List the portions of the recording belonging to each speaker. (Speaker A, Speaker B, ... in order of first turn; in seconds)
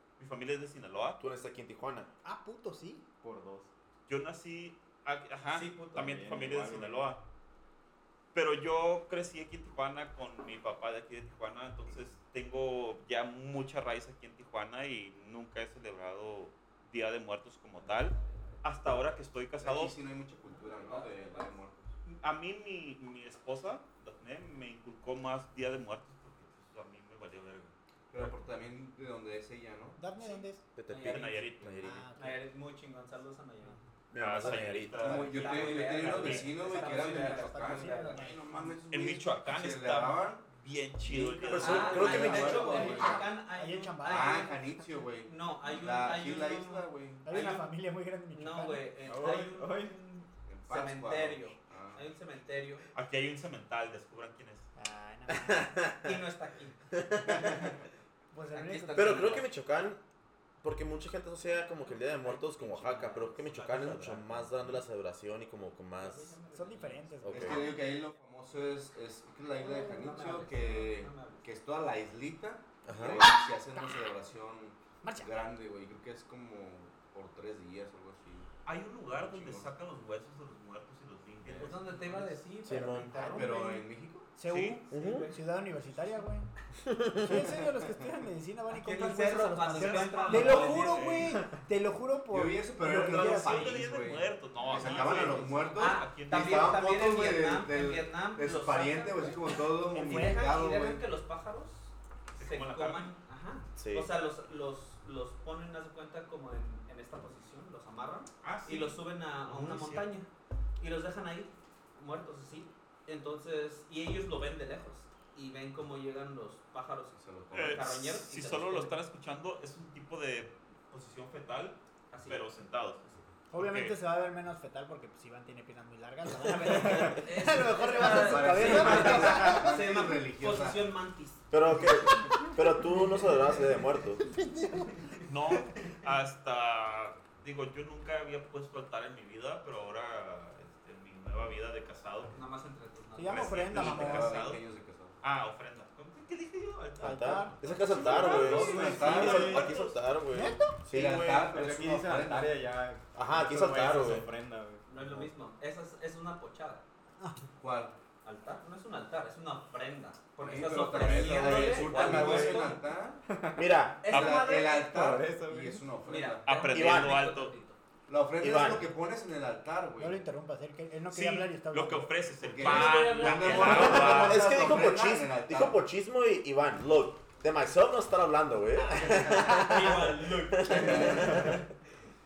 Speaker A: 0.2-1.2, 4.1-7.2, 8.3-19.9, 22.1-28.3, 31.0-31.8, 34.1-36.8, 38.9-43.1, 52.9-54.7, 63.4-64.8, 78.7-82.4, 84.5-84.8, 89.7-91.4, 92.9-96.8, 100.0-100.3, 102.3-103.2, 108.4-110.1, 117.5-124.0, 135.3-142.3, 143.3-144.6, 145.2-150.0, 161.2-162.6, 164.1-164.5, 166.4-167.5, 171.1-174.8, 178.9-181.5
Speaker B: 1.2-2.1, 30.8-32.1, 34.1-35.1, 41.5-42.7, 55.3-56.2, 56.9-57.6, 58.9-60.0, 60.6-66.3, 67.2-67.6, 72.8-73.3, 82.7-83.3, 84.9-85.3, 86.8-87.5, 103.8-104.1, 131.5-134.2, 147.0-148.9, 149.4-151.5, 153.2-154.3, 161.3-162.7, 163.5-164.1, 166.6-167.2, 168.4-168.9, 173.6-181.6
Speaker C: 2.2-3.1, 30.0-30.6, 31.8-32.4, 36.7-38.7, 42.0-44.7, 47.2-48.8, 54.8-55.8, 58.3-59.3, 66.5-67.8, 75.0-75.3, 83.2-83.5, 84.4-86.5, 87.2-93.8, 100.0-100.5, 123.5-129.7, 132.9-133.3, 134.2-135.1, 143.2-144.4, 147.0-147.6, 150.3-150.8, 170.0-172.1, 179.1-179.8
Speaker D: 3.2-3.7, 6.0-7.1, 42.0-43.1, 49.1-50.0, 149.0-149.7, 151.5-155.1, 163.3-163.7, 164.9-165.9
Speaker E: 5.5-6.1, 17.8-18.6, 20.5-21.6, 30.2-31.3, 32.2-33.8, 35.0-38.7, 41.4-44.5, 45.3-47.7, 48.3-52.9, 56.0-56.8, 58.5-59.5, 62.0-63.5, 66.0-68.0, 69.5-71.5, 81.6-83.8, 84.9-85.4, 88.7-91.1, 94.9-95.2, 95.8-110.3, 110.8-119.0, 122.1-122.4, 126.6-131.4, 142.3-143.6, 146.0-146.2, 148.7-149.4, 154.9-156.8, 158.2-162.8, 164.0-164.8, 166.1-167.8, 172.6-174.2
Speaker F: 19.6-21.9, 28.1-30.0, 35.0-40.5, 41.0-43.0, 44.0-47.4, 50.5-52.1, 67.3-78.5, 79.2-79.7, 83.3-84.3, 92.3-101.0, 117.1-117.8, 128.0-130.8, 143.5-145.2, 147.9-149.6, 150.9-152.6, 157.6-158.0, 160.4-163.2, 164.1-166.6, 168.1-170.3, 172.4-175.8